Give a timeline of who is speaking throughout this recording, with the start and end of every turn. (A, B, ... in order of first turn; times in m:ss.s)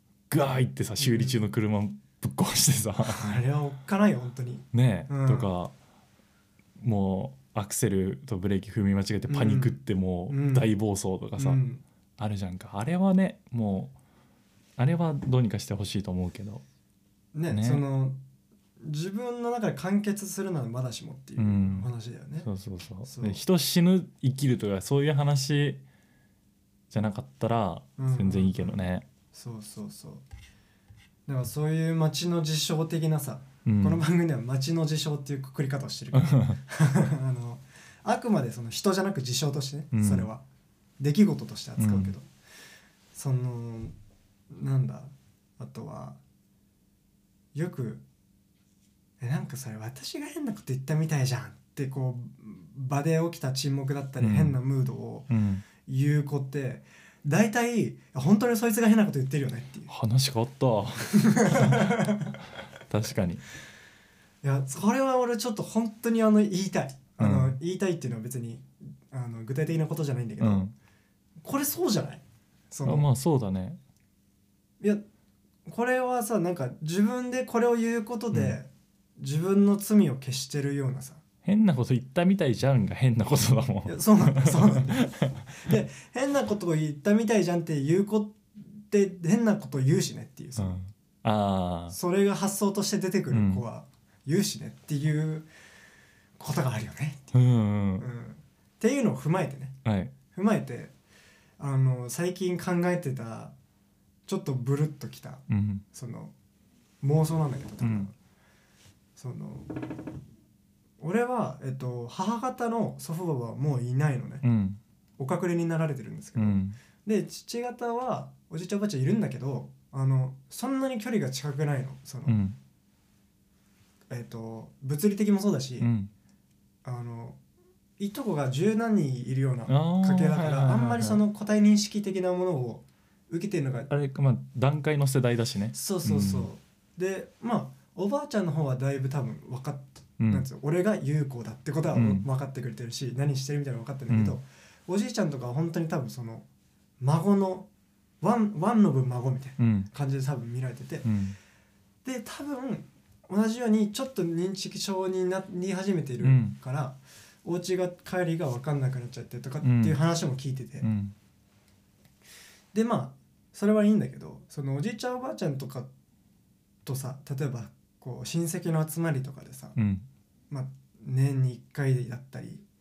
0:00.3-0:03.4 A
0:01.0-0:01.4 B
0:03.0-0:05.5 B
0:04.7-0:05.7 A
0:06.8-0:11.6 A
0:09.3-0:09.8 B
0:10.3-0:10.7 B
0:11.4-0:11.8 B
0:12.2-0:13.9 A
0:14.8-0:16.6 A
0:17.3-0:18.2 B
0:17.5-0:17.8 A
0:18.8-0:22.5 B
0:21.4-0:21.9 A
0:22.4-0:25.8 A
0:23.0-0:23.4 B
0:26.9-0:29.0 A
0:28.0-0:28.8 B
0:29.3-0:30.2 B
0:31.3-0:40.4 B
0:33.6-0:34.0 A
0:36.1-0:36.6 A
0:39.9-0:40.3 A
0:41.0-0:42.3 B
0:41.8-0:42.1 A
0:43.1-0:43.9 B
0:44.5-0:46.2 B
0:47.5-0:48.0 B
0:49.2-0:55.3 B
0:54.2-0:54.6 A
0:55.3-0:55.6 A
0:55.8-0:59.9 B
0:59.9-1:02.2 A
1:01.1-1:02.4 B
1:02.9-1:03.4 A
1:04.4-1:10.7 B
1:07.2-1:07.6 A
1:10.4-1:10.7 A
1:11.4-1:13.1 B
1:12.8-1:13.8 A
1:15.7-1:21.2 B
1:21.4-1:25.5 A
1:23.8-1:30.8 B
1:30.6-1:32.0 A
1:31.9-1:35.5 B
1:33.3-1:33.6 A
1:36.4-1:37.4 B
1:37.3-1:38.0 A
1:38.0-1:39.8 B
1:39.8-1:40.1 A
1:40.3-1:40.9 B
1:41.6-1:43.5 B
1:44.3-1:46.3 B
1:45.5-1:45.8 A
1:47.0-1:48.1 B
1:47.8-1:48.1 A
1:49.2-1:49.7 B
1:51.0-1:54.4 B
1:54.4-1:54.8 A
1:55.2-2:02.4 B
1:56.4-1:56.8 A
2:02.2-2:02.6 A
2:04.1-2:05.9 B
2:05.8-2:06.1 A
2:06.8-2:07.4 B
2:08.0-2:13.9 B
2:09.7-2:11.2 A
2:13.9-2:16.5 A
2:15.7-2:26.4 B
2:20.2-2:20.4 A
2:21.9-2:22.2 A
2:24.1-2:24.4 A
2:27.0-2:27.7 B
2:28.2-2:31.1 B
2:29.6-2:29.9 A
2:31.0-2:31.4 A
2:32.0-2:40.9 B
2:36.2-2:36.6 A
2:39.6-2:40.0 A
2:40.8-2:41.1 A
2:42.7-2:45.9 B
2:46.8-2:49.8 B
2:49.8-2:50.1 A
2:50.5-2:52.6 B